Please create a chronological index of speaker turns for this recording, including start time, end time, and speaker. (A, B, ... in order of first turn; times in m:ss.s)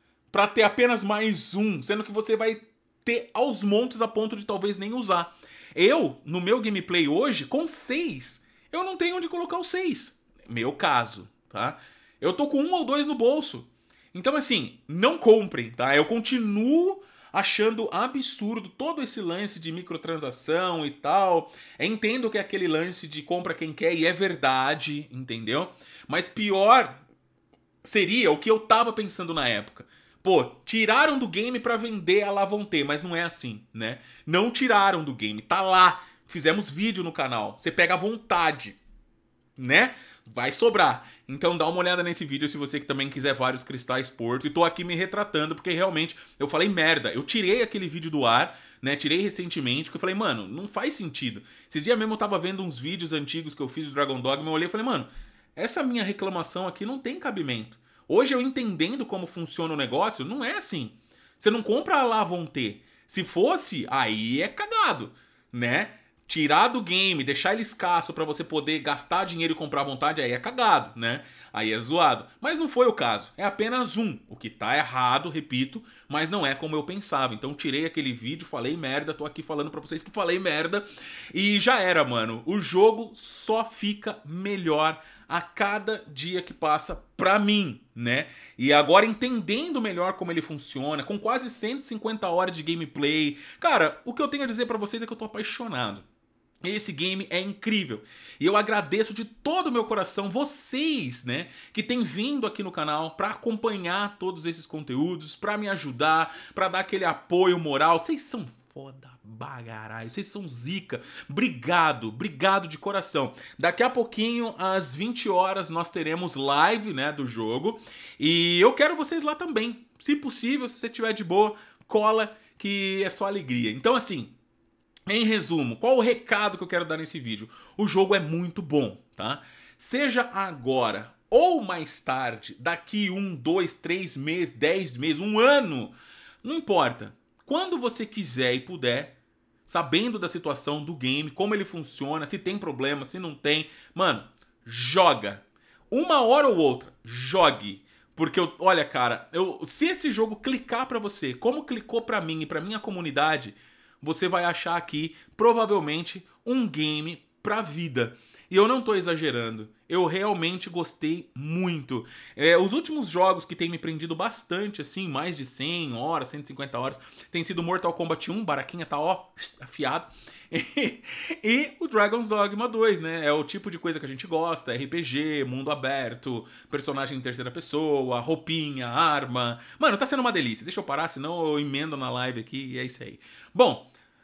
0:00.3-0:27.0 A
0:27.8-0:38.8 A
0:39.6-1:36.0 A
1:36.6-2:04.3 A
2:05.1-2:19.2 A
2:19.7-3:03.9 A